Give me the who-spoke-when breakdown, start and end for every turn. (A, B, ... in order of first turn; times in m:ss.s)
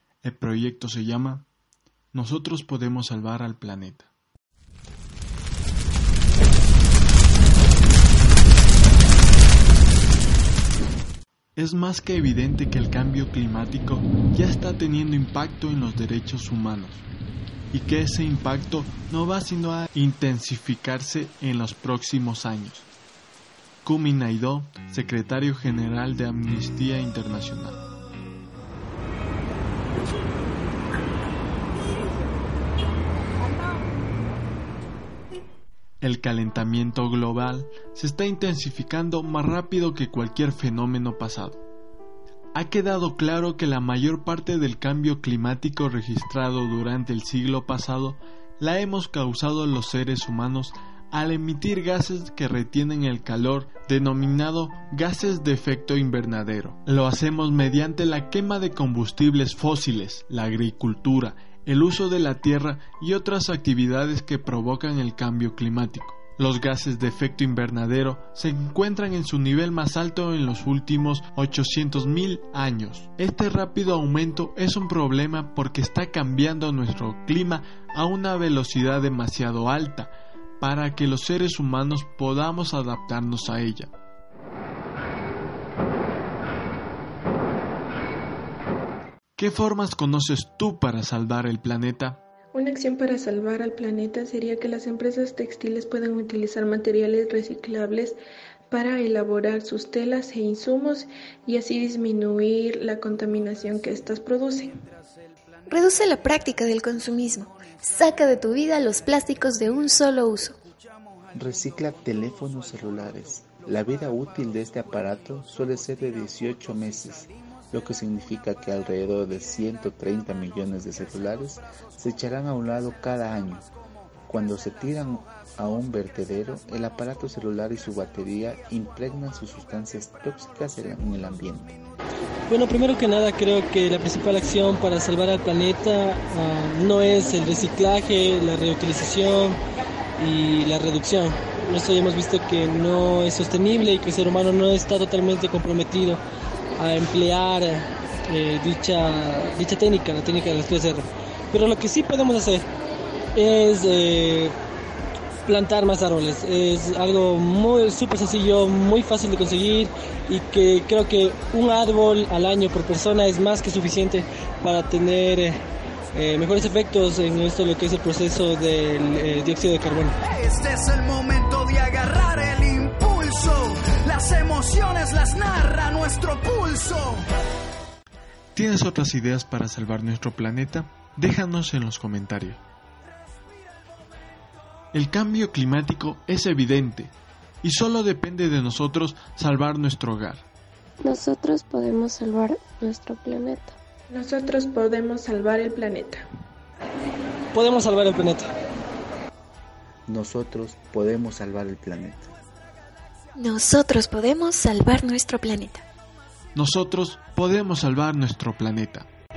0:00.2-0:01.5 A
0:02.1-0:04.1 A
0:11.6-0:17.1 A
0:17.7-0:22.9 A
0:23.8-0:27.8 A
0:36.0-0:41.6 A
0:42.6-1:23.9 A
1:29.4-1:32.2 A
1:32.5-1:38.2 B
1:38.7-1:44.7 B
1:45.7-1:50.6 C
1:51.3-2:03.7 D
2:04.3-2:11.8 D
2:12.5-2:19.6 E
2:20.2-2:26.2 E
2:26.8-2:32.6 E
2:33.4-2:34.6 E
2:35.5-2:45.6 E
2:46.1-2:50.1 E
2:50.2-2:57.2 F
2:58.5-3:02.6 A
3:04.9-3:10.5 A
3:11.0-3:13.8 G
3:14.1-3:16.2 B
3:17.5-3:18.5 E
3:20.1-3:22.3 D
3:23.4-3:25.8 C
3:26.5-3:29.1 A